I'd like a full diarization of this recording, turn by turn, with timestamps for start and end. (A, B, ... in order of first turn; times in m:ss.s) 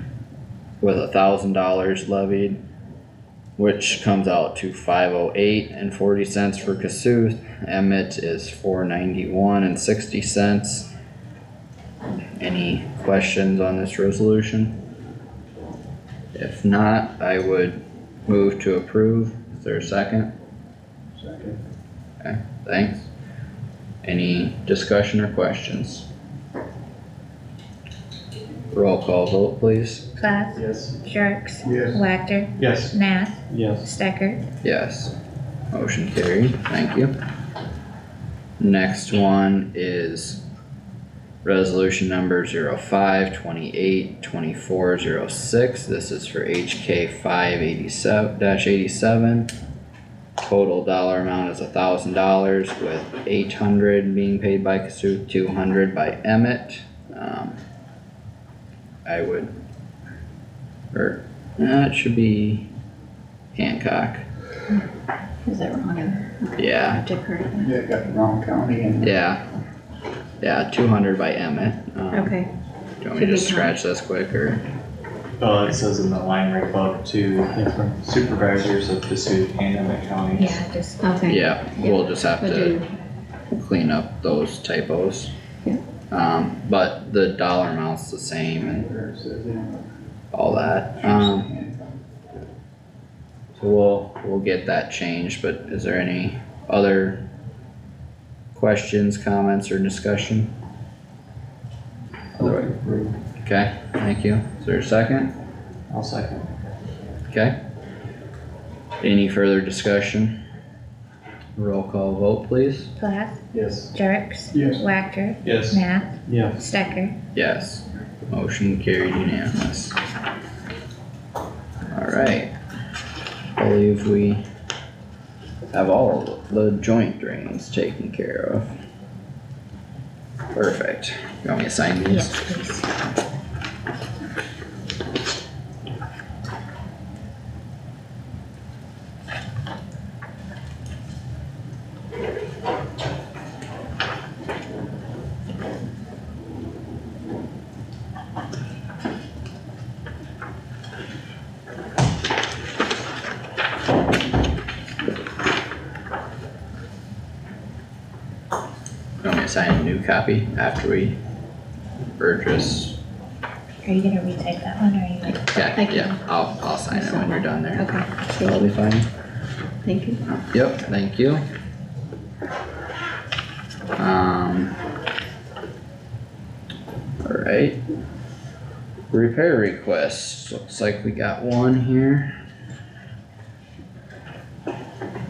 0:00.8-0:02.6 A
0:03.6-0:10.9 A
0:12.4-0:14.8 A
0:16.3-0:20.3 A
0:21.2-0:21.5 B
0:22.2-0:23.1 A
0:24.0-0:26.0 A
0:28.7-0:30.0 A
0:30.2-0:34.4 C
0:30.6-0:30.9 D
0:31.6-0:32.0 B
0:32.6-0:33.0 D
0:33.5-0:33.9 D
0:34.6-0:35.1 A
0:35.7-0:37.1 A
0:38.6-0:40.4 A
0:41.4-0:49.5 A
0:50.4-0:57.6 A
0:59.0-0:59.5 A
1:00.9-1:02.7 A
1:03.6-1:04.2 A
1:05.4-1:07.7 E
1:06.6-1:07.0 A
1:07.6-1:09.1 B
1:09.0-1:09.4 A
1:10.4-1:12.4 A
1:12.1-1:12.5 E
1:13.0-1:14.6 A
1:13.1-1:13.7 E
1:15.4-1:20.6 D
1:20.4-1:21.0 C
1:21.0-1:21.4 E
1:21.3-1:22.8 A
1:22.4-1:22.9 E
1:23.5-1:25.3 A
1:26.1-1:28.8 A
1:28.6-1:29.9 B
1:30.3-1:31.5 A
1:30.9-1:32.0 B
1:33.6-1:37.2 A
1:38.5-1:40.5 A
1:42.4-1:42.7 A
1:43.4-1:45.3 A
1:45.9-1:46.5 D
1:47.3-1:47.5 A
1:49.0-1:50.4 A
1:51.6-1:52.9 A
1:53.0-1:53.4 C
1:53.5-1:53.9 D
1:53.9-1:57.2 C
1:54.5-1:54.8 B
1:55.4-1:56.6 D
1:57.3-1:59.9 A
2:01.9-2:02.5 A
2:03.6-2:04.4 A
2:05.7-2:08.7 A
2:10.5-2:12.4 A
2:12.0-2:12.9 C
2:39.2-2:41.2 A
2:42.2-2:43.0 A
2:43.8-2:45.4 C
2:45.2-2:46.2 E
2:45.4-2:47.9 A
2:46.9-2:48.7 E
2:48.4-2:49.1 A
2:49.8-2:50.2 E
2:50.2-2:51.4 A
2:54.0-2:54.7 A
2:57.2-2:57.8 A
2:59.1-3:02.3 A